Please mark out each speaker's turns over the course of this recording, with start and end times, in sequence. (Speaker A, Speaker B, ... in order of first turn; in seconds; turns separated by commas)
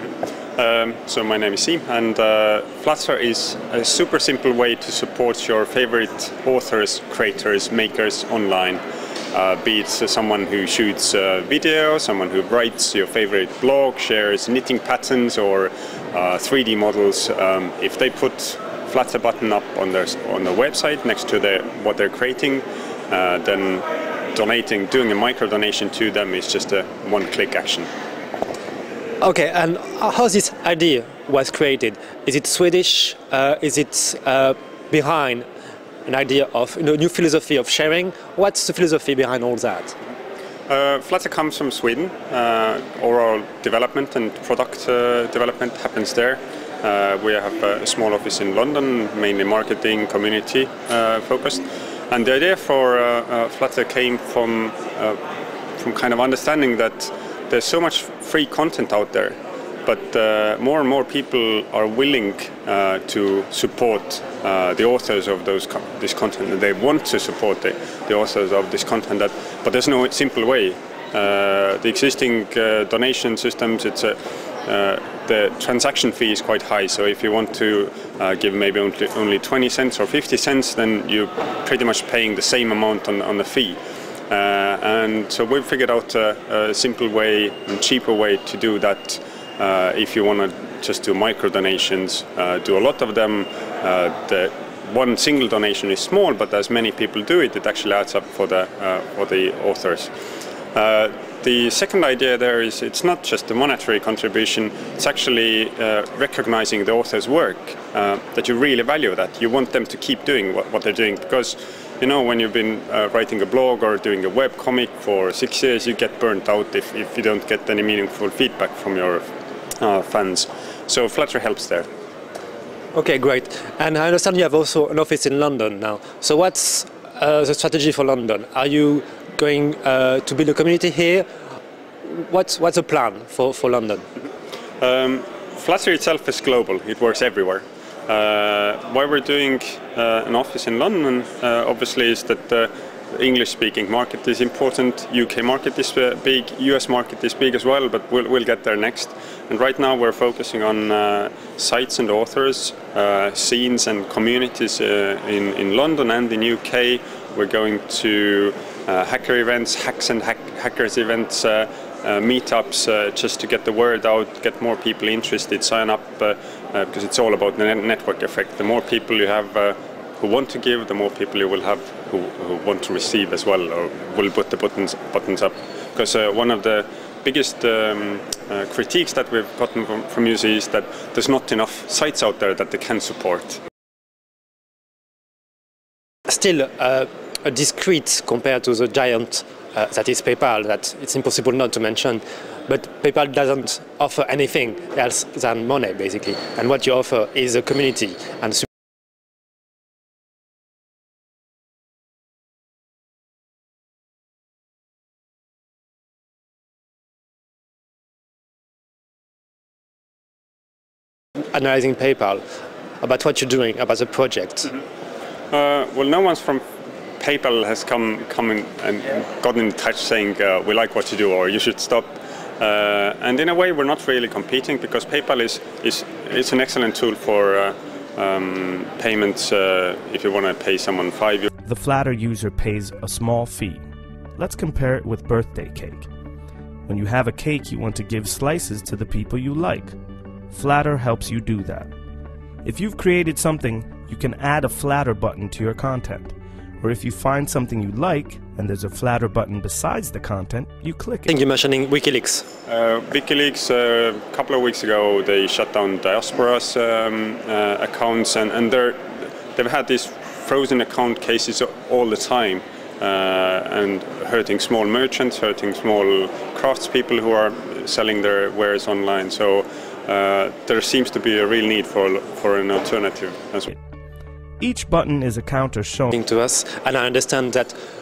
Speaker A: 0.6-27.9, Speaker B: 29.2-35.4, Speaker B: 36.0-39.9, Speaker A: 40.7-55.2, Speaker A: 55.8-83.8, Speaker A: 84.3-100.1, Speaker A: 100.7-119.3, Speaker A: 119.8-121.9, Speaker B: 123.0-131.3, Speaker B: 132.1-134.0, Speaker A: 134.8-183.6, Speaker B: 186.3-198.7, Speaker B: 211.5-212.4, Speaker B: 213.0-214.8, Speaker A: 215.5-216.6, Speaker A: 217.2-231.5, Speaker C: 231.7-233.8, Speaker C: 234.4-236.1, Speaker C: 236.9-240.0, Speaker C: 240.5-241.9, Speaker C: 242.6-251.3, Speaker B: 251.3-252.4, Speaker A: 252.7-259.0, Speaker A: 259.5-273.7, Speaker C: 274.6-276.1, Speaker B: 276.1-277.7